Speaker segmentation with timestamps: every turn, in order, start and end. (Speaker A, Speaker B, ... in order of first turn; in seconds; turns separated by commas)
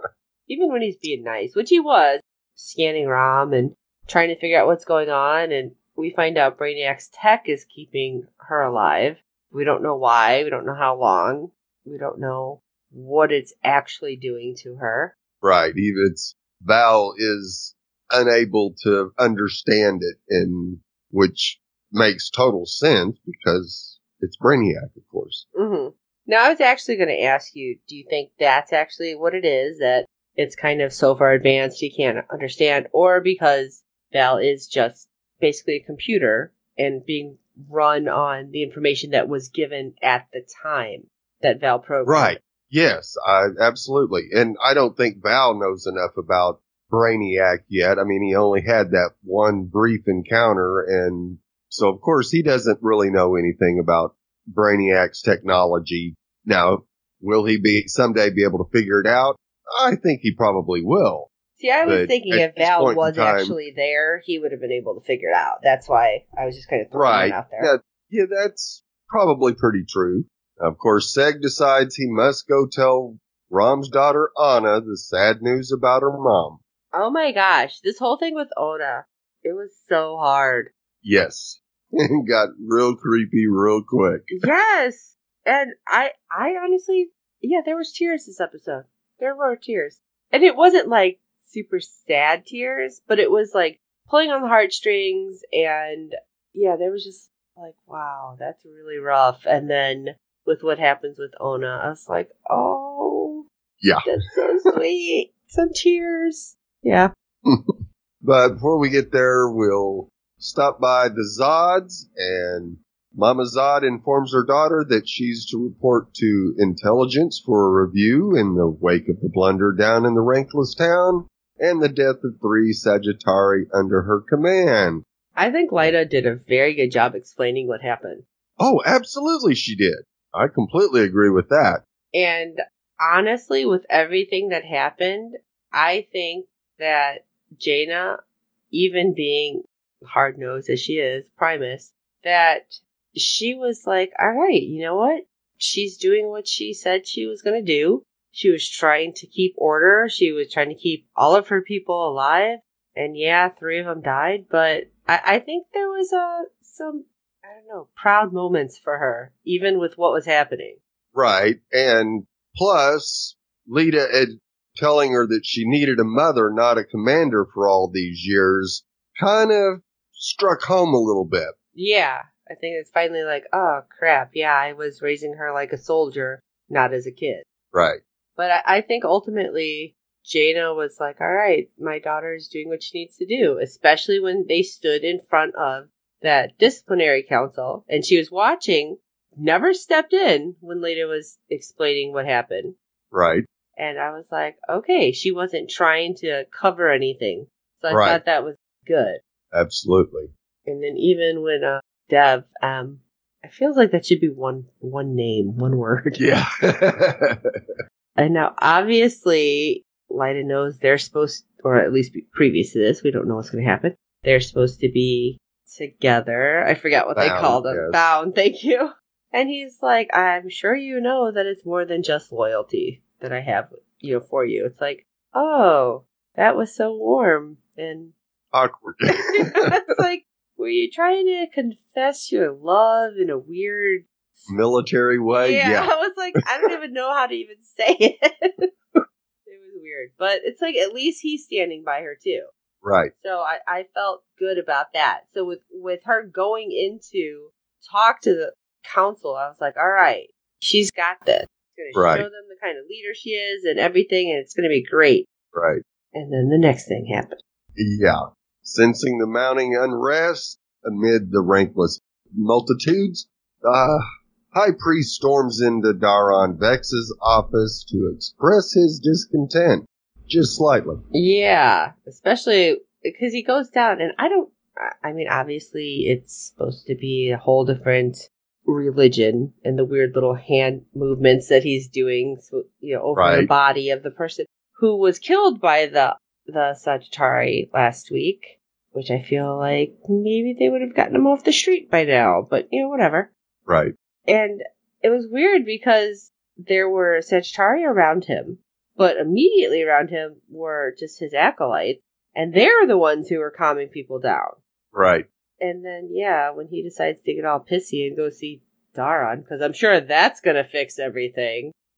Speaker A: 0.5-15.1, Speaker B: 15.4-25.4, Speaker A: 25.5-42.4, Speaker B: 42.0-61.3, Speaker A: 61.6-67.7, Speaker B: 61.8-63.5, Speaker B: 66.9-76.6, Speaker A: 76.9-80.7, Speaker B: 81.0-84.3, Speaker A: 84.3-103.4, Speaker B: 103.8-104.1, Speaker A: 104.0-107.1, Speaker B: 107.5-125.0, Speaker A: 125.3-128.2, Speaker B: 128.6-131.8, Speaker A: 132.1-138.2, Speaker A: 138.7-160.8, Speaker B: 161.1-171.5, Speaker A: 171.7-177.4, Speaker B: 177.7-178.0, Speaker A: 178.4-192.7, Speaker B: 193.1-193.4, Speaker A: 193.8-199.2, Speaker B: 197.9-198.2, Speaker B: 199.5-200.3, Speaker A: 200.7-206.3, Speaker B: 206.2-207.4, Speaker A: 208.2-228.1, Speaker B: 217.2-218.1, Speaker B: 228.5-229.7, Speaker A: 229.1-234.5, Speaker B: 234.5-235.9, Speaker A: 235.4-238.7, Speaker A: 239.4-242.5, Speaker B: 242.8-243.1, Speaker A: 243.2-255.3, Speaker B: 251.9-252.2, Speaker B: 255.5-255.8, Speaker A: 256.1-257.4, Speaker B: 257.8-271.0, Speaker A: 271.1-293.3, Speaker B: 283.1-283.5, Speaker B: 293.7-293.9, Speaker A: 294.3-304.6, Speaker B: 304.9-305.2, Speaker A: 305.6-311.7